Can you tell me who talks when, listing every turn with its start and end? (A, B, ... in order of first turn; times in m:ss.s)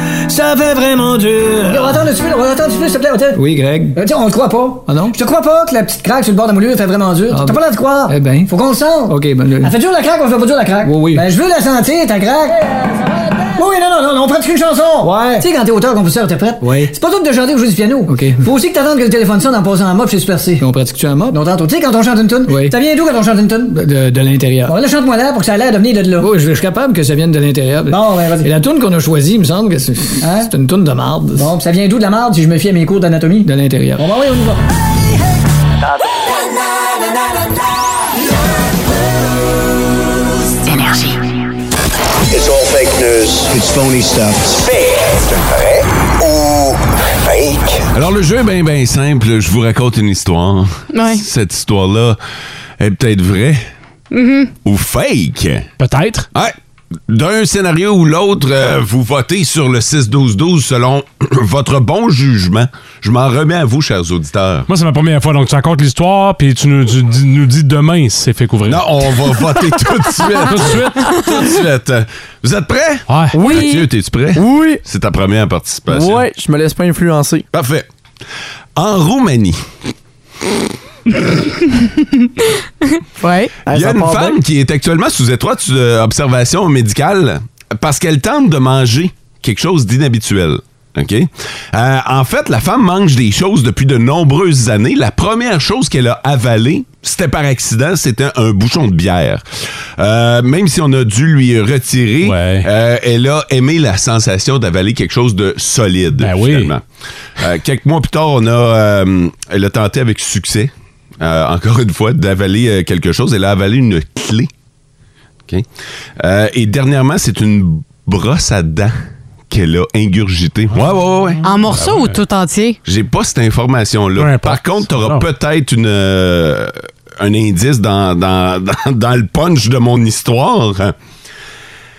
0:00.3-0:03.4 A
0:01.2-0:02.0 B
0:03.3-0:04.0 B
0:04.0-0:20.6 A
0:04.9-0:05.2 B
0:07.3-0:08.6 B
0:09.1-0:09.8 B
0:10.8-0:11.3 B
0:15.0-0:15.5 B
0:16.6-0:16.9 B
0:18.1-0:18.5 B
0:20.6-0:21.4 B
0:21.3-0:23.8 A
0:22.4-0:22.8 B
0:23.7-0:24.8 B
0:24.7-0:26.3 A
0:26.2-0:31.5 B
0:27.9-0:28.5 A
0:30.2-0:30.5 A
0:31.4-0:34.6 A
0:33.4-0:34.1 B
0:42.3-0:47.8 C
0:47.9-0:52.2 D
0:50.9-0:51.2 E
0:52.8-0:53.6 D
0:54.1-0:54.5 E
0:54.6-0:55.7 D
0:55.8-0:56.3 F
0:57.1-1:04.7 D
1:04.7-1:09.1 F
1:08.7-1:16.2 D
1:10.5-1:11.2 F
1:13.1-1:13.4 F
1:13.4-1:13.7 G
1:13.4-1:13.9 E
1:14.3-1:14.8 G
1:15.9-1:17.5 G
1:17.5-1:17.9 D
1:18.8-1:19.6 D
1:21.3-1:23.6 E
1:23.7-1:24.4 G
1:23.7-1:39.4 D
1:40.0-1:46.8 D
1:42.2-1:42.7 F
1:46.2-1:46.7 F
1:47.4-1:54.5 D
1:56.2-1:58.9 D
1:59.5-2:01.4 D
2:01.4-2:02.8 E
2:01.8-2:02.1 F
2:02.8-2:11.0 D
2:04.2-2:05.3 F